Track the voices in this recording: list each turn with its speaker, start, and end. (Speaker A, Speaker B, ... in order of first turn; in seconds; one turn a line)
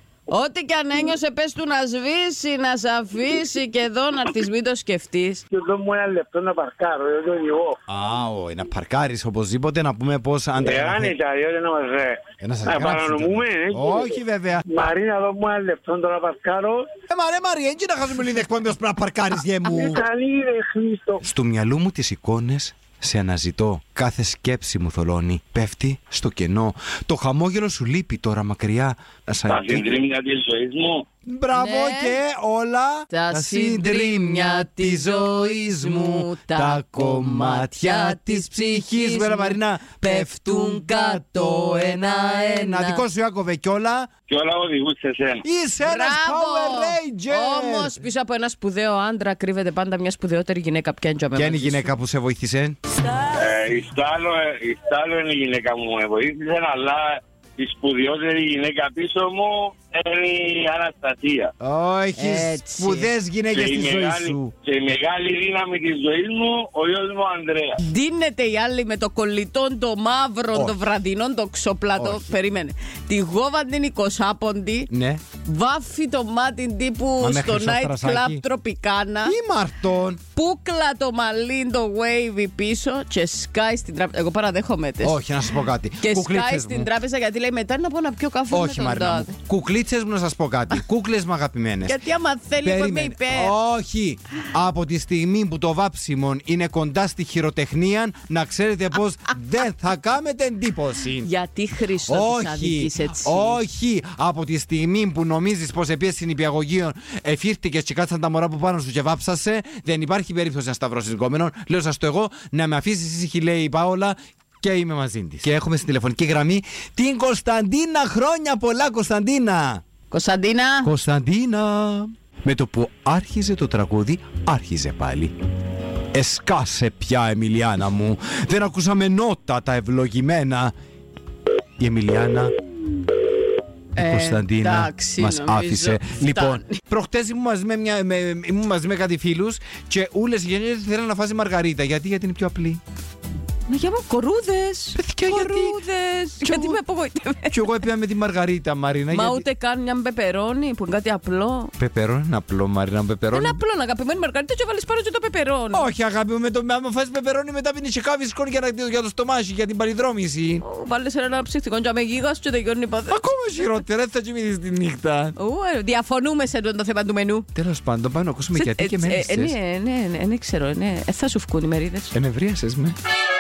Speaker A: 0.3-5.4
Speaker B: 5.5-7.8
Speaker C: 7.9-11.2
Speaker B: 10.6-16.9
Speaker C: 12.4-14.7
Speaker C: 17.1-20.0
Speaker B: 19.7-21.2
Speaker C: 21.2-30.0
Speaker D: 29.5-31.1
Speaker C: 31.3-44.1
Speaker A: 31.5-32.2
Speaker A: 33.1-43.0
Speaker D: 44.3-45.5
Speaker C: 45.4-48.0
Speaker A: 45.8-51.9
Speaker C: 51.4-52.8
Speaker D: 53.3-61.5
Speaker C: 61.6-64.5
Speaker A: 62.2-63.1
Speaker D: 63.5-67.8
Speaker A: 67.8-74.9
Speaker C: 70.5-70.8
Speaker C: 72.0-72.3
Speaker C: 74.9-75.2
Speaker A: 75.4-79.3
Speaker C: 77.2-78.4
Speaker C: 79.2-80.2
Speaker A: 80.3-85.2
Speaker C: 85.0-86.9
Speaker A: 86.0-89.3
Speaker C: 88.5-92.0
Speaker A: 91.8-93.5
Speaker C: 92.6-101.3
Speaker A: 101.2-103.6
Speaker C: 102.1-119.8
Speaker A: 120.1-120.9
Speaker C: 120.8-125.3
Speaker C: 126.1-130.7
Speaker C: 131.8-132.5
Speaker A: 134.0-136.8
Speaker C: 134.0-142.8
Speaker A: 143.7-147.6
Speaker C: 144.9-145.8
Speaker C: 146.4-146.8
Speaker C: 147.5-149.4
Speaker A: 149.1-151.7
Speaker C: 151.8-153.6
Speaker A: 153.3-155.9
Speaker C: 155.7-160.6
Speaker A: 160.6-163.2
Speaker C: 163.1-165.3
Speaker A: 165.4-167.5
Speaker C: 167.5-169.6
Speaker A: 168.5-172.1
Speaker C: 172.1-173.0